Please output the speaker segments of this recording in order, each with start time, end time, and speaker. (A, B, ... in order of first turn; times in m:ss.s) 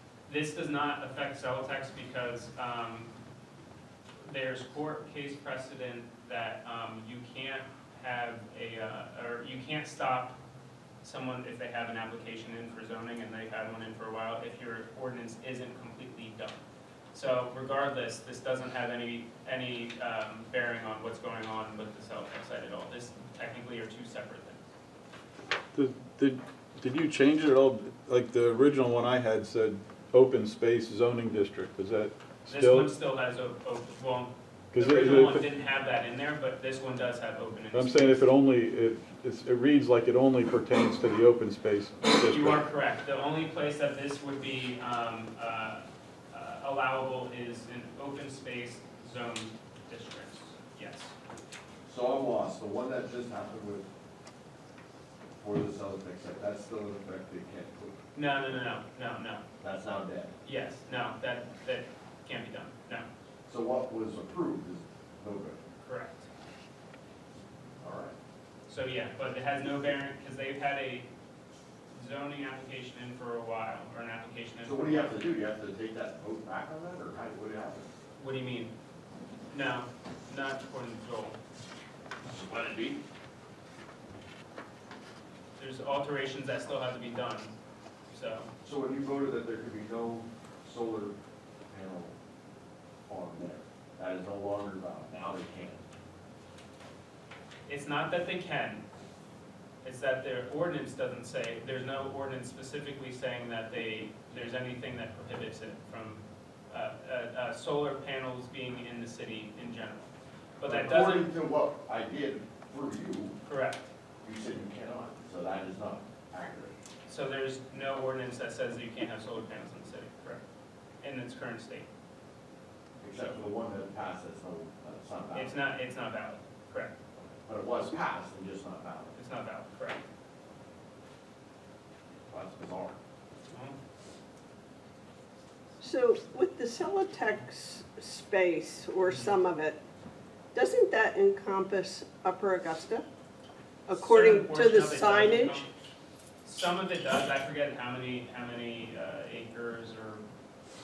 0:00.3-0:03.1 A
0:04.2-0:10.4 A
0:11.0-0:16.6 A
0:17.1-0:24.6 A
0:25.7-0:32.9 B
0:32.5-0:38.3 A
0:34.7-0:35.5 B
0:37.7-0:42.6 B
0:42.2-0:51.1 A
0:51.8-0:53.9 C
0:55.4-0:58.0 C
0:58.1-0:59.4 A
0:59.6-1:00.3 C
1:00.4-1:03.1 A
1:03.5-1:05.6 C
1:05.8-1:06.3 A
1:07.8-1:08.1 C
1:08.7-1:11.1 A
1:11.9-1:15.2 A
1:14.6-1:17.9 C
1:18.2-1:18.7 A
1:19.5-1:21.4 A
1:22.2-1:23.0 C
1:25.6-1:27.5 A
1:28.1-1:28.5 A
1:28.6-1:31.2 C
1:31.7-1:32.1 C
1:33.1-1:35.8 C
1:37.7-1:38.8 A
1:39.8-1:51.3 A
1:50.6-1:53.4 C
1:53.4-1:53.9 A
1:54.2-1:56.8 C
1:57.1-2:00.4 A
2:01.0-2:01.9 A
2:03.0-2:05.6 C
2:05.3-2:07.0 A
2:07.2-2:09.1 C
2:09.2-2:10.0 A
2:12.3-2:13.0 C
2:13.5-2:13.8 A
2:15.8-2:19.8 D
2:19.1-2:19.3 A
2:20.5-2:23.1 D
2:23.9-2:25.6 D
2:23.9-2:25.8 A
2:26.4-2:30.2 A